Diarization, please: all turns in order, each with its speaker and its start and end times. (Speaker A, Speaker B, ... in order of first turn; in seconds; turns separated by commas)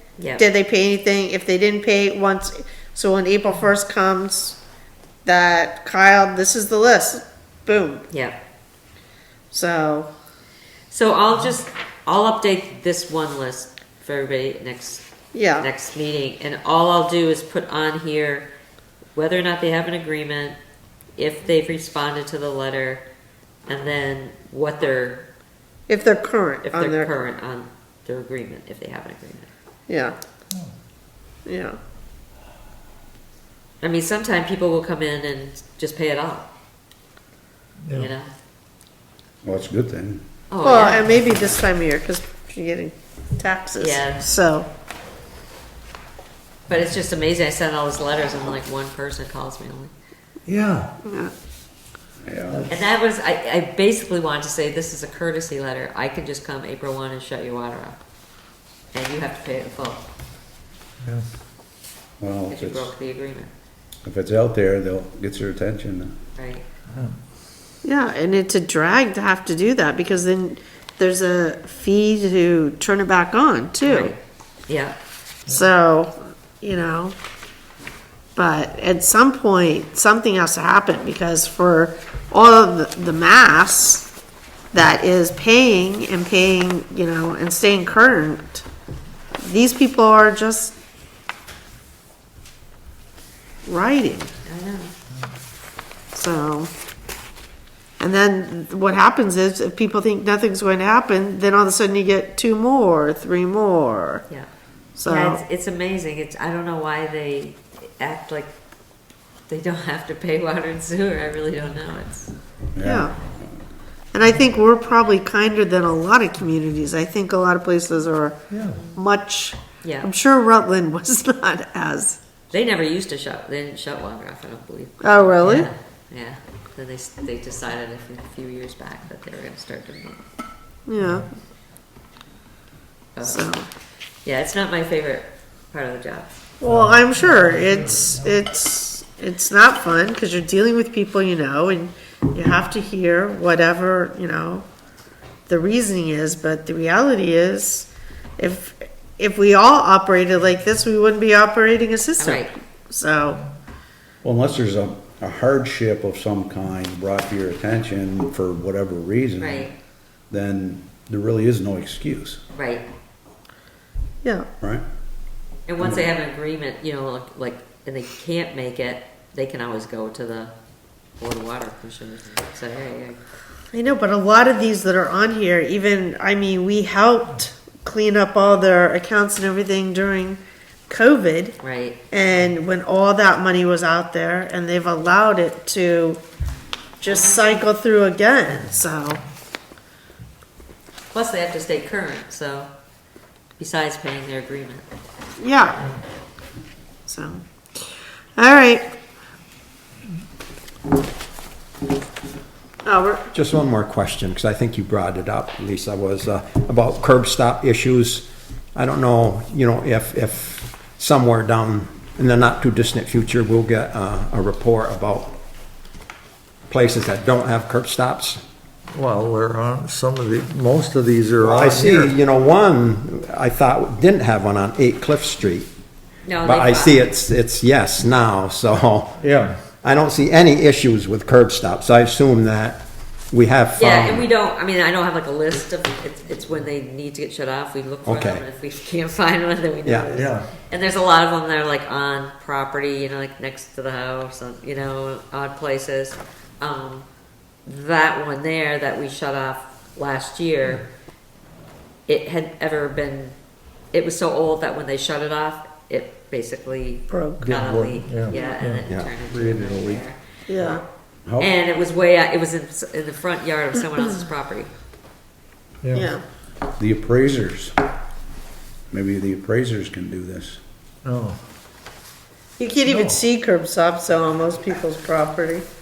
Speaker A: 0.2-0.5, Speaker B: 0.4-4.6, Speaker B: 5.2-8.1, Speaker A: 8.1-8.4, Speaker B: 9.5-10.1, Speaker A: 10.9-15.1, Speaker B: 15.3-15.7, Speaker A: 15.6-18.5, Speaker A: 19.1-20.6, Speaker A: 21.2-23.0, Speaker A: 23.7-25.3, Speaker B: 25.9-27.1, Speaker A: 26.6-29.5, Speaker B: 29.9-30.2, Speaker B: 31.5-31.8, Speaker A: 33.8-36.5, Speaker A: 37.9-38.3, Speaker C: 39.4-40.2, Speaker A: 40.5-41.2, Speaker B: 40.6-44.7, Speaker A: 43.8-44.3, Speaker A: 46.7-49.9, Speaker D: 50.5-50.9, Speaker B: 51.0-51.3, Speaker C: 52.2-52.7, Speaker A: 52.7-58.0, Speaker A: 58.9-60.1, Speaker D: 61.0-61.3, Speaker C: 62.2-62.9, Speaker A: 62.5-63.5, Speaker C: 64.0-66.2, Speaker A: 66.4-66.7, Speaker B: 67.8-74.2, Speaker A: 73.9-75.0, Speaker B: 75.5-77.2, Speaker B: 78.4-84.1, Speaker B: 84.7-88.6, Speaker B: 89.4-90.7, Speaker B: 93.7-94.3, Speaker A: 94.5-94.9, Speaker B: 96.1-96.7, Speaker B: 98.0-104.2, Speaker B: 105.0-105.4, Speaker A: 105.1-108.5, Speaker A: 109.5-112.3, Speaker C: 112.8-113.1, Speaker B: 112.8-113.2, Speaker B: 114.1-118.4, Speaker D: 118.5-118.8, Speaker B: 118.9-122.2, Speaker A: 119.8-120.1, Speaker A: 122.5-130.2, Speaker B: 125.0-125.7, Speaker B: 130.9-131.3, Speaker A: 133.2-133.5, Speaker B: 133.2-133.7, Speaker A: 134.2-136.3, Speaker B: 136.6-144.7, Speaker D: 136.7-138.2, Speaker B: 145.5-153.4, Speaker A: 152.2-152.5, Speaker C: 154.2-159.7, Speaker A: 159.4-159.7, Speaker C: 160.3-162.4, Speaker A: 162.5-162.9, Speaker B: 164.2-164.5, Speaker A: 165.7-170.5, Speaker C: 165.8-166.1, Speaker A: 171.2-173.2, Speaker B: 173.7-181.6, Speaker A: 181.6-182.0, Speaker B: 182.1-186.2, Speaker B: 187.0-189.2, Speaker A: 187.1-187.6, Speaker A: 191.1-192.7, Speaker A: 193.6-194.8, Speaker B: 195.4-195.9, Speaker B: 197.1-198.9, Speaker B: 202.8-203.3, Speaker E: 203.3-215.3, Speaker E: 216.7-218.4, Speaker D: 218.9-222.1, Speaker E: 221.4-225.7, Speaker A: 226.3-227.1, Speaker E: 226.4-229.2, Speaker D: 229.2-229.6, Speaker E: 229.8-234.3, Speaker A: 233.8-247.1, Speaker E: 238.1-238.4, Speaker E: 239.9-240.1, Speaker D: 240.1-240.5, Speaker A: 247.7-250.9, Speaker A: 252.1-253.3, Speaker A: 253.9-260.7, Speaker B: 257.1-257.5, Speaker D: 257.4-258.9, Speaker B: 260.5-260.8, Speaker A: 261.4-264.7, Speaker D: 265.8-266.1, Speaker B: 265.9-266.2, Speaker C: 266.8-267.8, Speaker C: 268.9-270.6, Speaker D: 271.0-271.4, Speaker B: 272.6-275.6, Speaker D: 272.9-273.2